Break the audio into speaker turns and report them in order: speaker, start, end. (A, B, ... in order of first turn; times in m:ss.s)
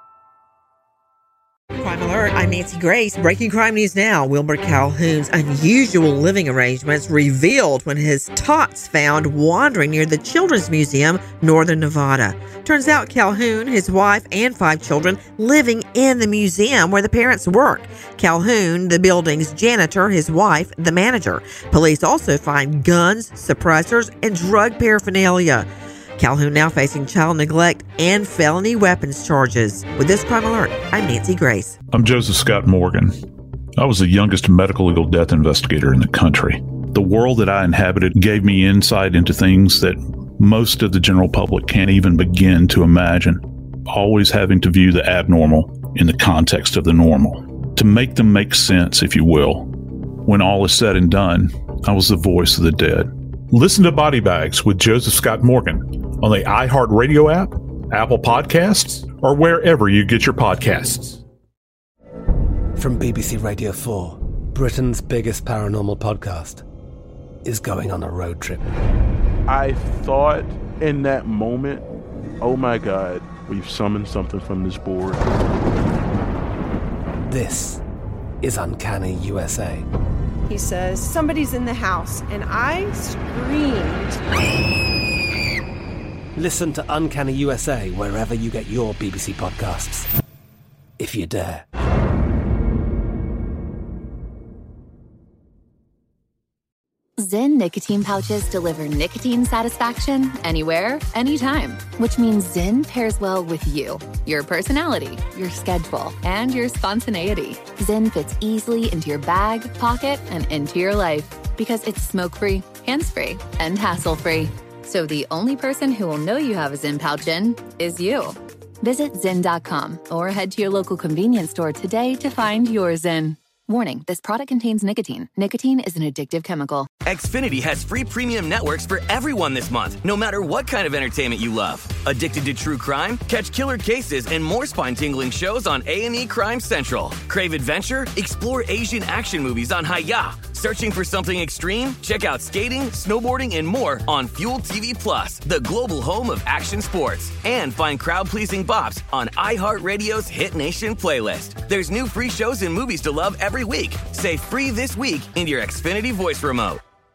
0:01.8-0:25.7 A
0:26.2-0:31.7 A
0:31.9-0:33.1 B
0:33.8-0:49.7 B
0:50.2-1:01.2 B
1:02.8-1:06.6 C
1:07.4-1:08.7 C
1:09.5-1:11.8 D
1:12.4-1:15.2 D
1:17.3-1:17.8 C
1:18.4-1:19.8 C
1:20.5-1:24.2 E
1:26.4-1:30.1 C
1:31.0-1:31.6 C
1:37.2-2:06.9 F
2:07.0-2:36.8 G